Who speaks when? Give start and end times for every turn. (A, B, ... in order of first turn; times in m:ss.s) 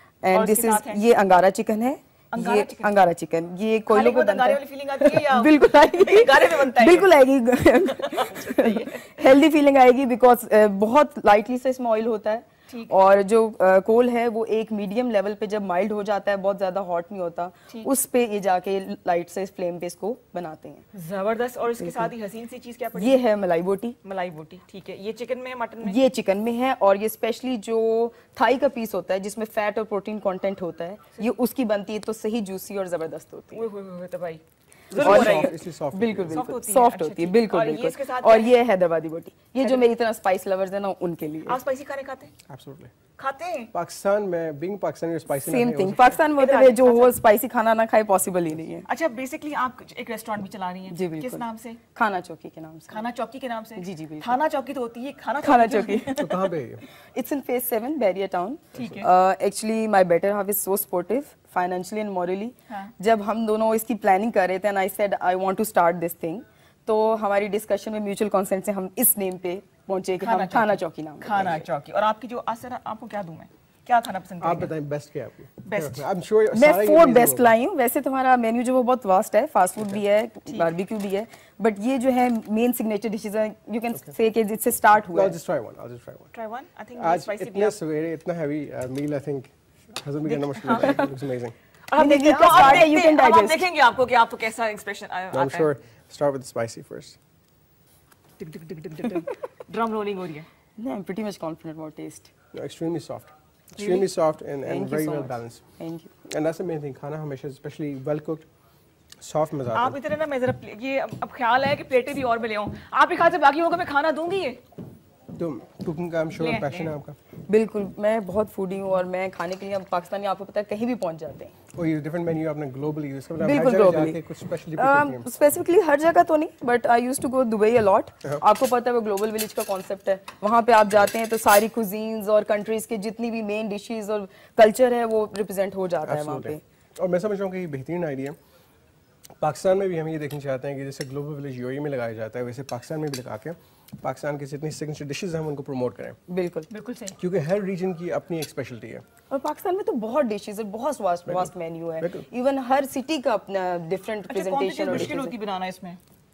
0:00.2-0:20.8 A
0:00.3-0:01.0 B
0:02.3-0:03.0 B
0:03.9-0:07.1 B
0:07.9-0:09.3 B
0:12.7-0:13.0 B
0:20.9-0:23.2 B
0:21.8-0:22.1 A
0:22.9-0:24.0 A
0:24.0-0:26.0 B
0:25.8-0:33.6 A
0:33.5-0:35.6 B
0:34.9-0:36.4 C
0:35.0-0:41.6 A
0:36.3-0:38.6 B
0:41.4-0:42.3 B
0:42.5-0:42.9 C
0:43.2-0:43.7 B
0:43.7-0:46.2 C
0:45.3-0:48.8 A
0:46.4-0:47.1 B
0:48.9-0:51.8 B
0:50.9-0:53.1 A
0:52.9-0:56.4 B
0:53.8-0:54.4 A
0:55.4-0:56.2 A
0:56.1-0:56.8 C
0:57.1-1:11.5 A
0:58.7-0:59.1 B
1:10.2-1:14.7 B
1:14.4-1:17.5 C
1:15.6-1:16.0 B
1:16.5-1:25.4 A
1:25.1-1:26.3 C
1:26.3-1:27.8 B
1:27.0-1:31.5 C
1:30.3-1:31.0 B
1:31.9-1:33.7 A
1:31.9-1:35.7 B
1:35.3-1:37.2 C
1:38.4-1:40.5 B
1:40.8-1:42.3 A
1:42.5-1:45.7 C
1:44.6-1:46.1 A
1:46.2-1:48.5 C
1:49.2-1:50.0 C
1:49.7-1:54.6 B
1:55.3-1:57.2 C
1:56.4-1:56.9 B
1:57.5-2:01.5 A
2:01.7-2:05.3 C
2:03.4-2:04.2 A
2:04.8-2:16.6 A
2:16.0-2:18.4 C
2:19.4-2:26.2 C
2:26.3-2:26.7 A
2:26.7-2:27.2 B
2:27.2-2:29.0 C
2:29.3-2:35.3 A
2:31.2-2:32.2 C
2:34.3-2:36.0 B